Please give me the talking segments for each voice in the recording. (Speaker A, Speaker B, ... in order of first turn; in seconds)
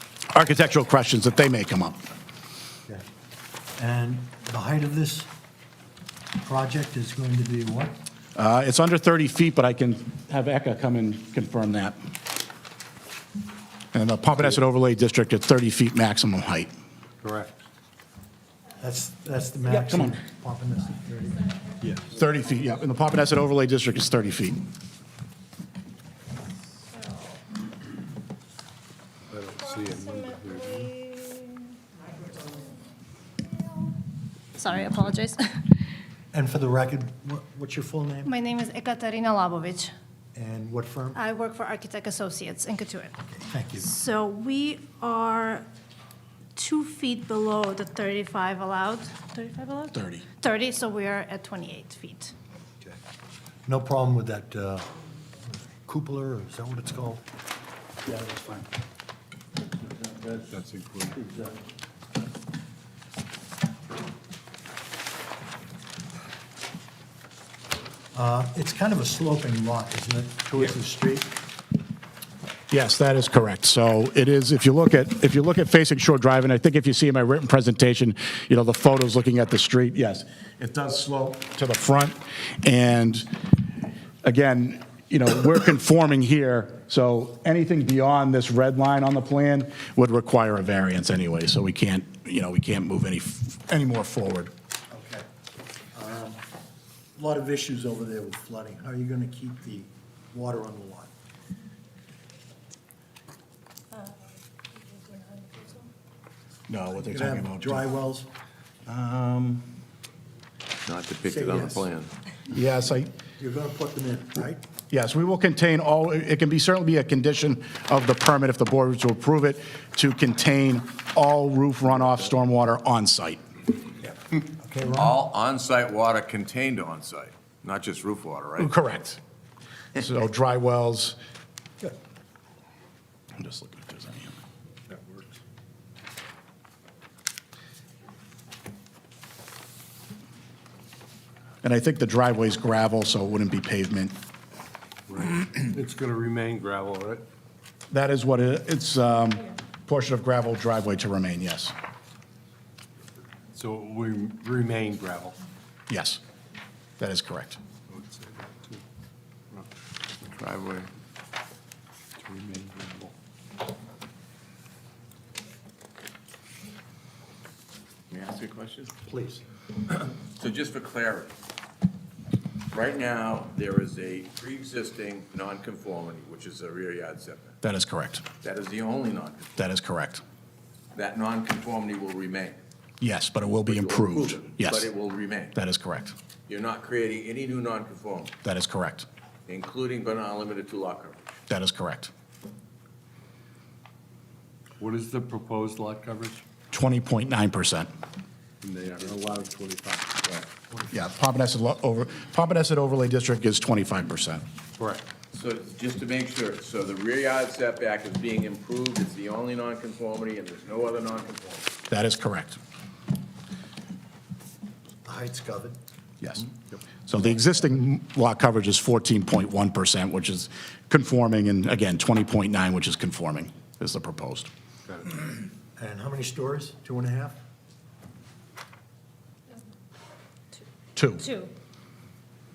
Speaker A: 0.3-2.0, 8.4-12.0, 13.9-16.7, 19.9-20.2, 22.1-24.6, 49.9-50.2, 72.7-83.3, 84.2-94.5, 106.7-107.9, 108.9-109.6, 112.5-113.1, 114.9-123.4, 128.6-129.2, 130.0-131.2, 133.4-134.4, 141.6-144.2, 147.9-151.7, 155.9-156.2, 157.0-157.6, 177.6-178.2, 179.6-180.2, 183.0-184.9, 185.6-186.2, 188.4-189.1, 191.5-192.1, 196.7-197.9, 200.9-204.4, 211.9-212.6, 216.2-216.5, 217.1-224.5, 231.0-231.3
Speaker B: 3.8-5.3, 6.4-7.9, 18.8-21.9, 36.3-38.3, 40.4-41.2, 43.5-43.9, 53.7-54.9, 55.9-57.2, 58.0-58.7, 59.9-60.3, 61.2-61.6, 68.1-71.3, 94.9-95.3, 95.9-96.4, 97.2-101.1, 107.0-108.3, 111.2-111.8, 113.3-114.6, 124.0-125.2, 169.1-169.4, 215.1-215.8, 225.8-227.4
Speaker C: 17.2-17.6, 29.3-30.9, 60.4-61.2, 134.9-135.4, 145.1-147.2, 153.5-155.4, 157.9-158.8, 162.2-163.1, 194.8-196.4, 198.6-200.4, 204.8-205.1
Speaker D: 26.8-27.4, 29.9-31.8, 33.6-33.9, 34.6-35.8, 38.3-39.9, 41.1-43.2, 43.8-45.7, 46.6-52.3, 105.2-105.7, 231.2-231.5
Speaker E: 110.9-112.1, 125.0-128.7, 160.3-160.9, 168.1-168.9, 170.2-171.3, 172.7-177.6, 178.4-179.6, 180.9-182.6, 183.7-185.6, 186.5-188.3, 189.5-191.2, 205.3-211.7